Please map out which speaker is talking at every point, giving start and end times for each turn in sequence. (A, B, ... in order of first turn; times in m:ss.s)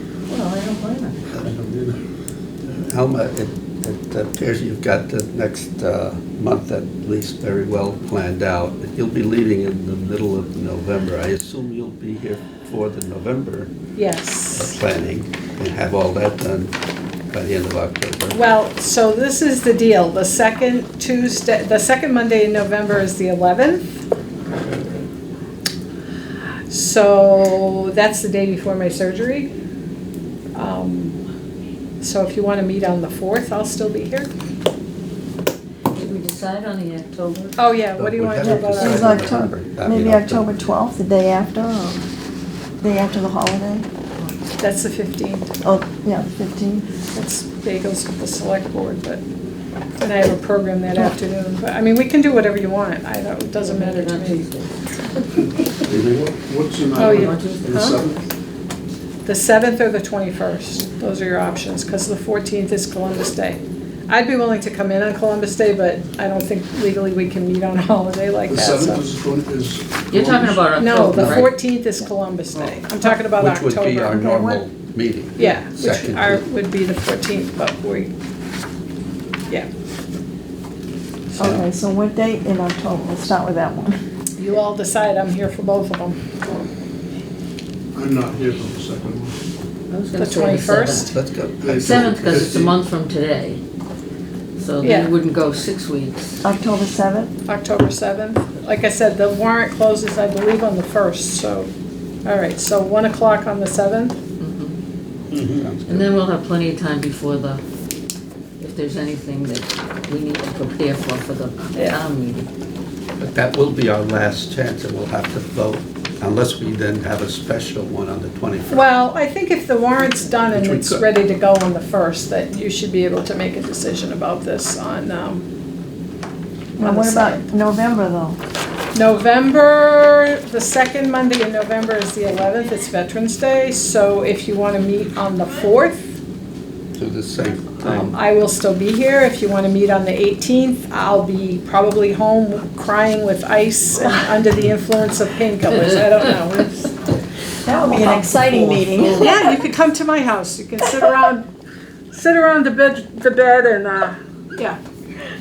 0:00.3-0:01.2 A
0:01.4-0:02.0 B
0:02.6-0:13.7 C
0:14.0-0:14.8 D
0:14.5-0:16.8 C
0:17.3-0:18.4 C
0:18.3-0:23.9 D
0:26.7-0:29.5 D
0:30.5-0:31.2 D
0:32.0-0:34.3 D
0:35.9-0:37.6 A
0:37.6-0:39.3 D
0:38.0-0:40.5 C
0:38.4-0:42.0 E
0:42.8-0:43.9 E
0:44.6-0:45.5 D
0:45.6-0:46.9 E
0:47.1-0:49.2 D
0:50.0-0:54.5 D
0:53.6-0:54.7 A
0:55.8-0:58.2 B
0:55.9-0:56.2 C
0:56.9-0:57.8 A
0:57.0-0:58.0 D
0:59.2-1:09.0 D
1:08.5-1:10.8 B
1:10.1-1:11.6 A
1:10.8-1:14.3 D
1:11.1-1:11.5 C
1:13.3-1:16.4 C
1:14.1-1:14.6 E
1:15.4-1:18.1 D
1:21.4-1:24.0 E
1:21.4-1:21.6 C
1:24.4-1:26.2 D
1:27.9-1:29.4 B
1:29.9-1:31.1 A
1:30.2-1:31.1 D
1:31.1-1:32.6 C
1:31.6-1:32.8 B
1:31.7-1:33.6 A
1:34.6-1:36.4 A
1:34.8-1:35.1 D
1:36.4-1:37.3 E
1:37.5-1:41.7 D
1:42.2-1:44.2 D
1:44.4-1:44.8 A
1:45.3-1:46.1 C
1:45.9-1:47.6 A
1:48.6-1:52.5 A
1:53.2-1:58.9 C
1:58.7-2:05.5 D
2:00.5-2:01.1 C
2:06.8-2:08.4 E
2:06.8-2:07.5 D
2:08.9-2:16.1 D
2:17.0-2:18.2 C
2:17.8-2:26.9 D
2:27.6-2:29.4 E
2:29.1-2:31.5 D
2:32.1-2:34.8 D